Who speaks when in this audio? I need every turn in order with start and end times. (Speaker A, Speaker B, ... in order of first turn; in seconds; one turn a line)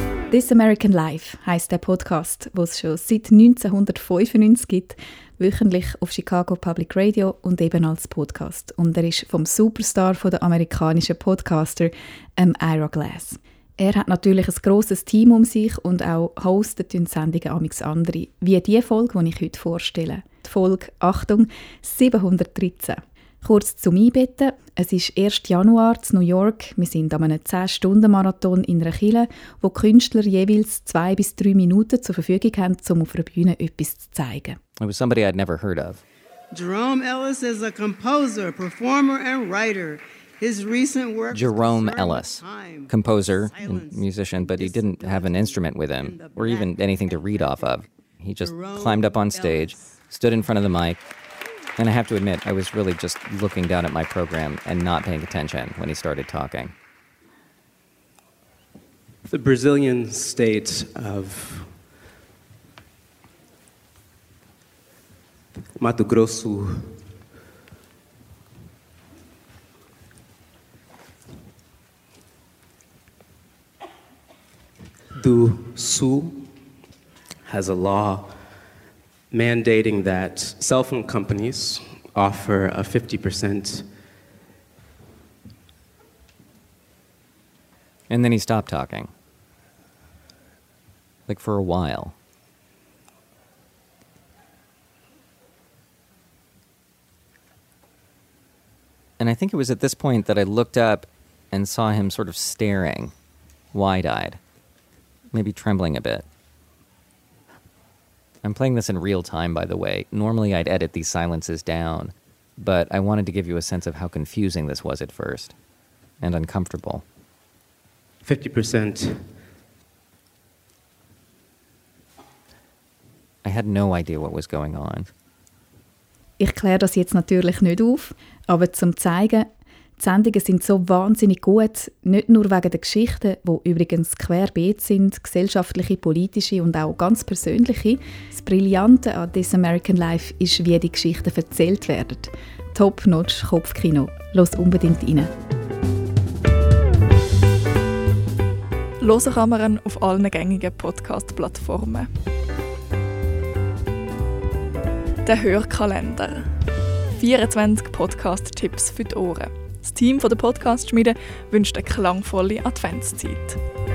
Speaker A: 0.3-34.6
Speaker B: 34.8-36.0
Speaker C: 36.5-47.8
Speaker B: 41.3-51.0
Speaker C: 48.4-49.8
Speaker B: 51.8-56.7
Speaker D: 59.3-61.8
Speaker D: 65.8-66.9
Speaker D: 75.2-76.5
Speaker D: 77.5-78.3
Speaker D: 79.3-83.8
Speaker B: 88.1-89.1
Speaker B: 91.3-92.1
Speaker B: 99.2-103.1
Speaker B: 103.7-104.4
Speaker B: 105.3-106.2
Speaker B: 108.4-115.6
Speaker B: 116.2-117.0
Speaker D: 118.2-119.3
Speaker B: 123.4-125.1
Speaker A: 126.4-129.5
Speaker A: 130.0-145.3
Speaker E: 149.0-152.1
Speaker E: 155.2-156.5
Speaker E: 157.1-163.6